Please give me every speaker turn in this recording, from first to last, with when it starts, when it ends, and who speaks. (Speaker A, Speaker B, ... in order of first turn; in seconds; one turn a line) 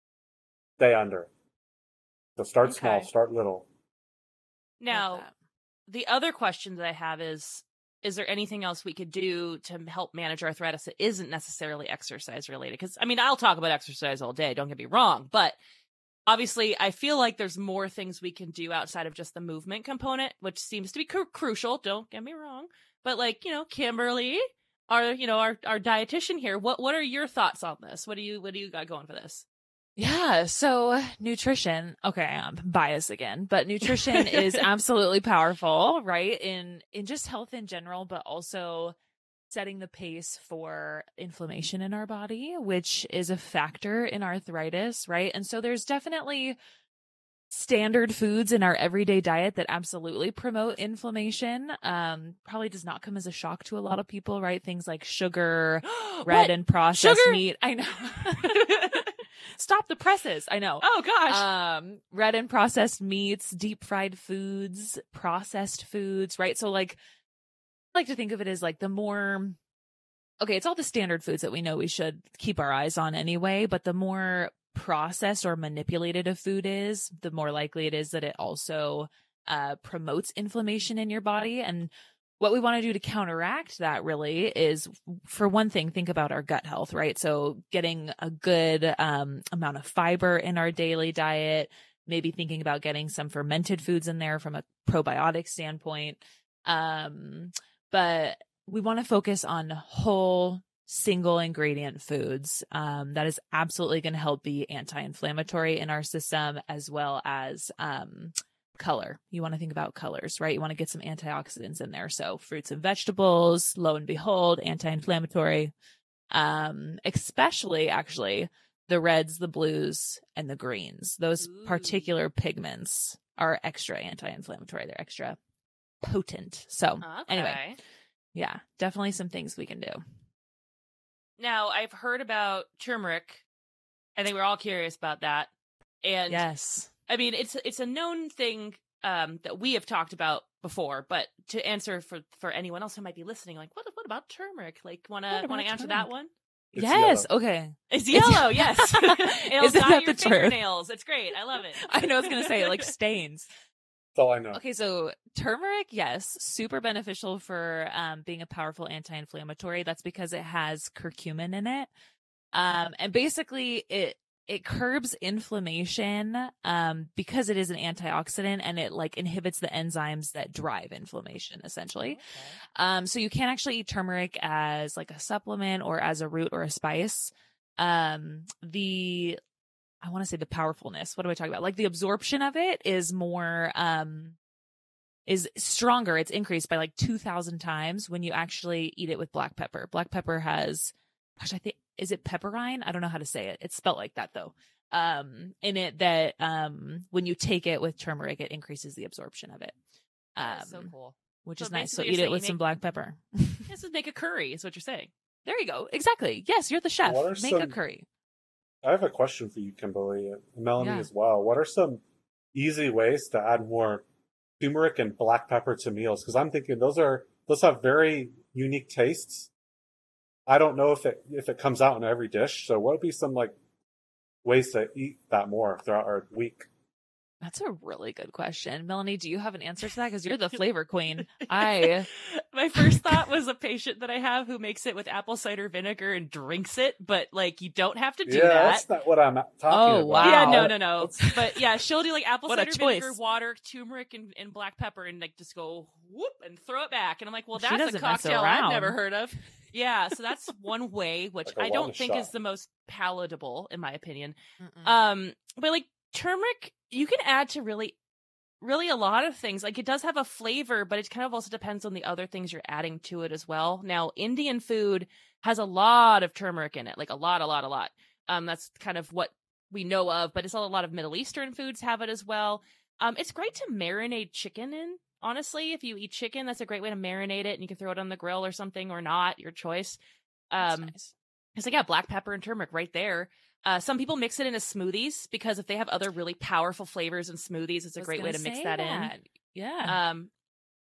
Speaker A: 0.8-1.3
Speaker A: 2.4-3.7
Speaker B: 2.6-3.1
Speaker B: 4.8-5.2
Speaker C: 4.9-5.3
Speaker B: 5.9-15.6
Speaker B: 16.3-29.4
Speaker C: 30.0-39.0
Speaker B: 33.9-34.6
Speaker C: 39.5-46.6
Speaker C: 47.5-67.0
Speaker B: 55.8-57.4
Speaker B: 58.3-59.1
Speaker B: 60.8-61.5
Speaker C: 67.9-69.6
Speaker C: 70.4-115.7
Speaker C: 116.3-125.4
Speaker B: 121.4-122.1
Speaker C: 126.0-127.6
Speaker B: 127.0-127.8
Speaker C: 128.3-130.0
Speaker B: 131.4-133.4
Speaker B: 134.2-135.5
Speaker B: 136.0-136.5
Speaker C: 136.3-136.9
Speaker B: 137.1-146.3
Speaker C: 145.3-146.1
Speaker C: 146.7-150.6
Speaker A: 146.8-147.3
Speaker B: 147.9-152.9
Speaker C: 151.8-153.5
Speaker A: 154.2-154.6
Speaker C: 154.5-161.9
Speaker C: 162.5-179.4
Speaker B: 172.1-172.5
Speaker C: 180.0-184.4
Speaker C: 185.3-199.8
Speaker C: 200.4-200.9
Speaker B: 200.4-202.6
Speaker C: 201.4-203.7
Speaker B: 203.7-205.1
Speaker C: 205.5-208.1
Speaker A: 207.0-207.8
Speaker A: 208.8-212.0
Speaker C: 210.8-211.1
Speaker A: 212.5-214.1
Speaker A: 214.6-219.5
Speaker A: 220.5-223.6
Speaker A: 224.4-226.7
Speaker C: 227.4-232.1
Speaker B: 231.4-238.9
Speaker A: 238.2-241.2
Speaker C: 239.7-241.6
Speaker B: 240.2-257.9
Speaker C: 242.5-243.2
Speaker C: 247.6-249.0
Speaker A: 251.4-252.3
Speaker C: 254.6-255.1
Speaker B: 258.6-280.0
Speaker B: 280.5-280.9
Speaker C: 280.6-281.1
Speaker B: 281.6-289.1
Speaker C: 288.0-290.0
Speaker B: 289.9-290.3